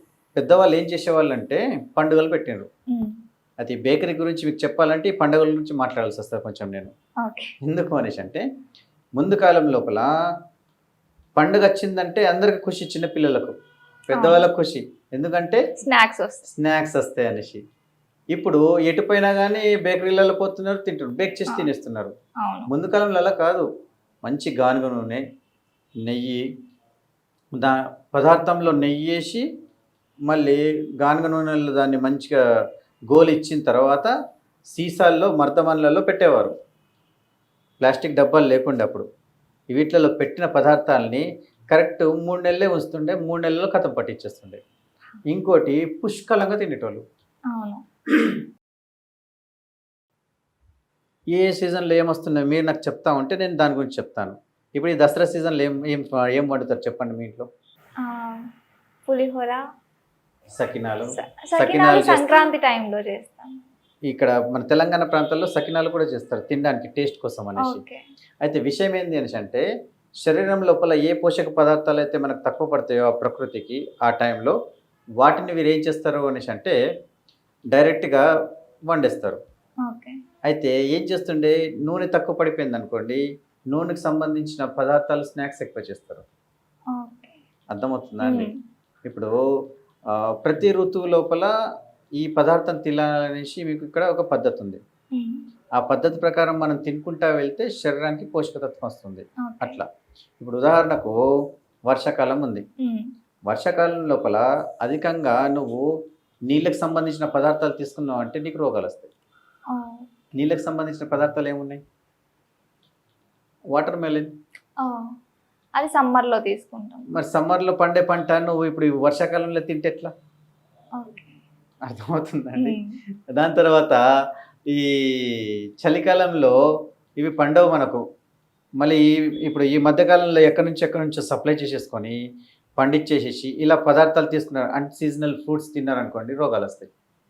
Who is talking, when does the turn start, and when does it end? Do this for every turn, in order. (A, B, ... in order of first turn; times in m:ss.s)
0:00.4-0:02.7 A
0:02.9-0:03.2 B
0:03.6-0:06.9 A
0:07.2-0:07.5 B
0:07.6-0:08.4 A
0:09.2-0:10.1 A
0:11.4-0:13.5 A
0:14.1-0:15.6 A
0:14.1-0:14.4 B
0:15.8-0:16.4 B
0:16.5-0:17.6 A
0:18.3-0:22.1 A
0:22.4-0:22.7 B
0:22.7-0:23.7 A
0:24.2-0:25.2 A
0:26.1-0:26.4 A
0:27.5-0:29.4 A
0:30.3-0:32.4 A
0:33.1-0:34.1 A
0:34.7-0:36.5 A
0:37.8-0:39.1 A
0:39.7-0:44.6 A
0:45.3-0:47.0 A
0:47.5-0:47.8 B
0:51.4-0:57.5 A
0:58.0-0:58.5 B
0:59.1-0:59.6 B
1:00.6-1:02.4 A
1:01.2-1:03.6 B
1:04.1-1:07.8 A
1:07.6-1:08.0 B
1:08.4-1:09.7 A
1:10.2-1:14.6 A
1:15.2-1:16.8 A
1:17.7-1:18.2 A
1:18.9-1:19.4 A
1:19.8-1:20.2 B
1:20.5-1:26.2 A
1:26.9-1:27.4 B
1:27.7-1:28.5 A
1:28.2-1:28.6 B
1:29.1-1:29.4 A
1:30.4-1:31.5 A
1:32.2-1:34.8 A
1:35.1-1:35.4 B
1:35.8-1:39.9 A
1:39.4-1:39.8 B
1:40.4-1:41.2 A
1:41.9-1:42.6 A
1:42.8-1:43.1 B
1:43.5-1:45.9 A
1:46.5-1:49.1 A
1:49.7-1:50.1 B
1:50.4-1:51.8 A
1:53.7-1:54.3 A
1:54.8-1:55.2 B
1:55.8-1:57.1 B
1:57.1-2:00.1 A
2:01.0-2:01.4 B
2:01.9-2:02.8 A
2:02.6-2:03.0 B
2:03.3-2:04.0 A
2:04.7-2:06.6 A
2:07.2-2:08.0 A
2:08.8-2:12.2 A
2:12.8-2:16.9 A